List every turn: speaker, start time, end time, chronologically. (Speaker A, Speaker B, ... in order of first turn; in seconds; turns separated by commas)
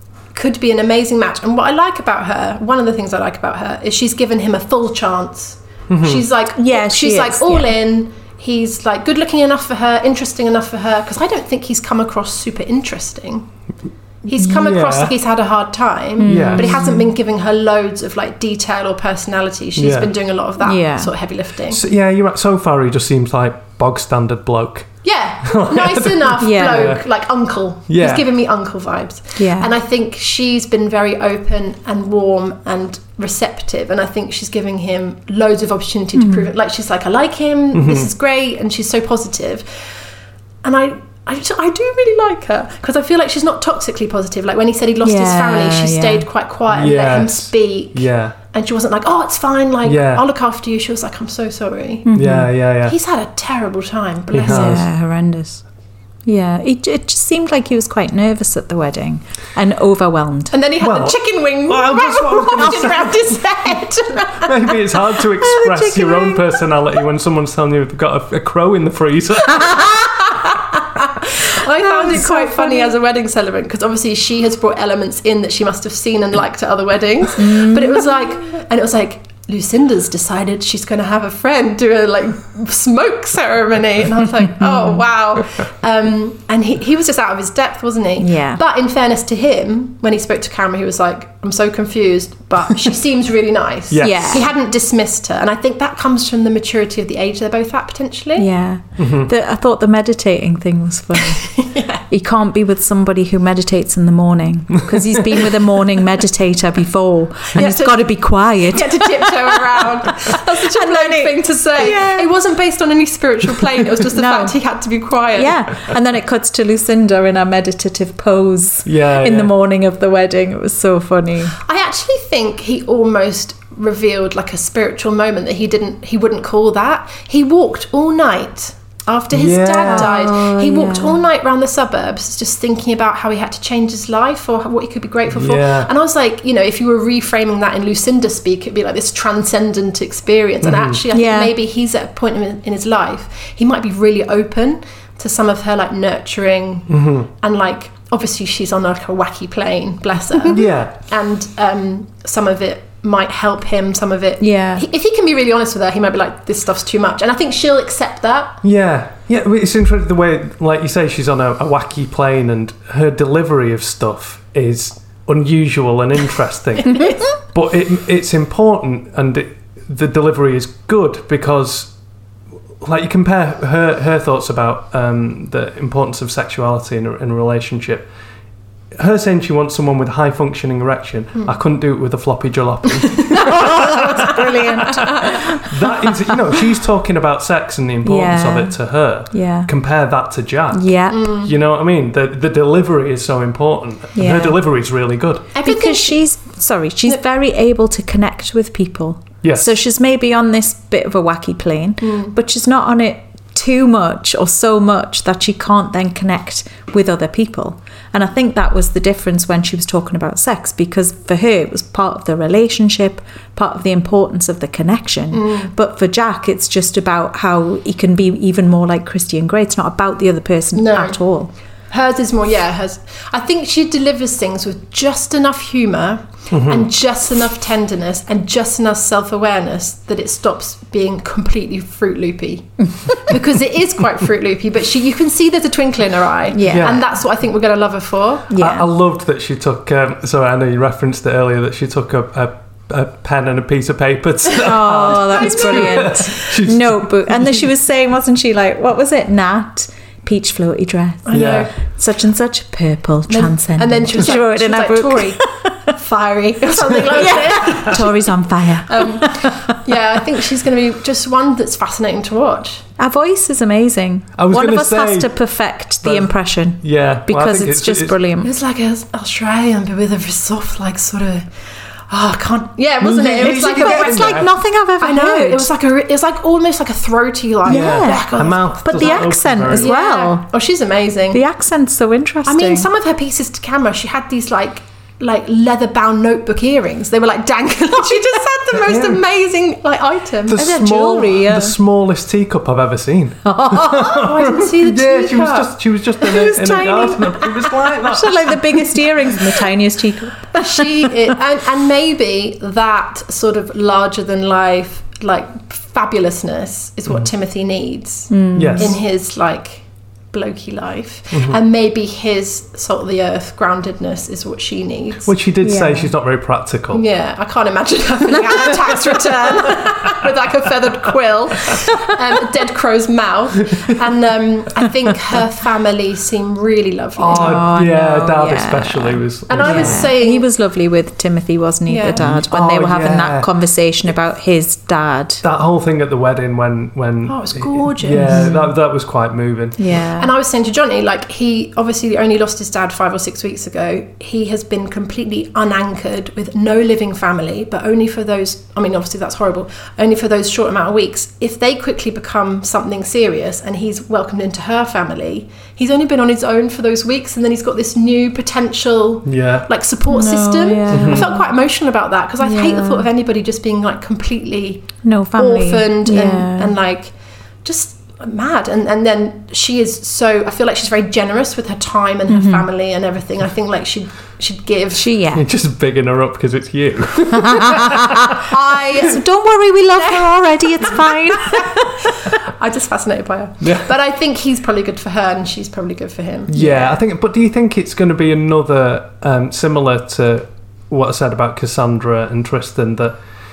Speaker A: 0.3-13.5, Speaker B: 5.9-6.2, Speaker C: 6.5-7.7, Speaker A: 14.3-21.8, Speaker B: 14.3-15.1, Speaker C: 16.2-17.1, Speaker B: 16.3-16.9, Speaker B: 19.8-20.1, Speaker C: 20.6-21.1, Speaker B: 21.7-27.0, Speaker A: 25.0-39.7, Speaker C: 26.4-26.9, Speaker B: 27.9-28.3, Speaker C: 29.4-29.7, Speaker C: 36.1-36.5, Speaker B: 37.7-38.1, Speaker A: 40.6-52.1, Speaker C: 45.0-46.3, Speaker B: 46.7-48.4, Speaker B: 49.8-50.2, Speaker C: 52.0-52.5, Speaker B: 52.1-52.9, Speaker A: 52.8-54.8, Speaker B: 54.3-54.8, Speaker C: 54.4-55.6, Speaker C: 56.2-60.5, Speaker A: 60.5-64.5, Speaker B: 60.8-63.3, Speaker B: 64.4-70.2, Speaker C: 65.4-66.6, Speaker A: 70.3-98.5, Speaker C: 71.8-72.9, Speaker C: 77.4-78.0, Speaker C: 84.6-85.0, Speaker C: 88.2-88.6, Speaker B: 93.9-94.5, Speaker C: 94.0-94.5, Speaker C: 98.4-101.5, Speaker B: 99.0-99.3, Speaker A: 101.4-102.0, Speaker C: 102.1-109.6, Speaker A: 107.5-115.6, Speaker C: 110.7-112.3, Speaker C: 114.1-114.5, Speaker C: 115.3-121.5, Speaker B: 118.8-119.5, Speaker A: 121.6-158.6, Speaker B: 129.3-130.1, Speaker C: 129.8-131.2, Speaker B: 135.3-135.9, Speaker B: 140.6-141.0, Speaker C: 141.1-141.5, Speaker B: 146.9-147.3, Speaker B: 150.5-151.0, Speaker C: 154.4-154.8, Speaker B: 158.6-171.9, Speaker A: 166.8-167.2, Speaker B: 172.8-178.1, Speaker B: 179.0-195.5, Speaker C: 183.4-185.7, Speaker C: 188.0-188.8, Speaker C: 189.3-189.7, Speaker C: 190.7-191.3, Speaker A: 191.1-191.5, Speaker C: 194.2-194.6, Speaker A: 195.5-196.2, Speaker C: 195.6-221.5, Speaker B: 199.4-199.7, Speaker A: 202.0-202.3, Speaker A: 215.3-215.7, Speaker A: 220.7-221.2, Speaker A: 221.9-238.5, Speaker B: 226.5-226.9, Speaker C: 236.5-237.0, Speaker B: 236.7-237.0, Speaker C: 238.5-238.9, Speaker B: 238.6-247.7, Speaker C: 244.6-255.8, Speaker A: 245.0-246.3, Speaker A: 251.3-251.7, Speaker B: 251.3-251.7, Speaker A: 253.3-258.3, Speaker B: 256.9-257.8, Speaker C: 257.1-259.5, Speaker A: 258.9-262.8, Speaker C: 263.0-268.5, Speaker B: 264.4-265.3, Speaker B: 266.0-268.2, Speaker A: 268.4-271.5, Speaker A: 272.1-274.5, Speaker B: 273.0-274.5, Speaker C: 273.4-275.7, Speaker A: 275.0-281.4, Speaker C: 277.6-280.4, Speaker B: 277.6-279.9, Speaker C: 281.3-282.9, Speaker A: 282.4-290.6, Speaker B: 288.7-289.2, Speaker B: 290.5-299.1, Speaker C: 290.5-291.7, Speaker C: 293.4-294.2, Speaker A: 294.1-295.7, Speaker C: 296.2-301.1, Speaker A: 300.6-315.3, Speaker C: 308.3-308.9, Speaker B: 308.5-309.0, Speaker B: 311.3-311.6, Speaker B: 315.2-317.0, Speaker C: 315.6-316.1, Speaker A: 316.9-327.6, Speaker B: 327.2-330.1, Speaker C: 327.3-335.4, Speaker A: 329.5-330.5, Speaker A: 331.9-332.2, Speaker B: 332.2-333.5, Speaker B: 335.4-339.8, Speaker A: 337.2-338.5, Speaker C: 338.2-338.7, Speaker C: 339.8-340.3, Speaker A: 340.2-367.1, Speaker B: 359.2-359.7, Speaker C: 360.1-361.5, Speaker B: 360.9-361.3, Speaker C: 362.4-363.1, Speaker C: 365.0-366.7, Speaker A: 367.6-375.1, Speaker C: 372.3-372.6, Speaker C: 374.9-375.4, Speaker B: 375.3-378.1, Speaker C: 377.4-381.8, Speaker A: 378.5-379.2, Speaker A: 379.9-386.9, Speaker B: 383.6-383.9, Speaker B: 386.5-393.2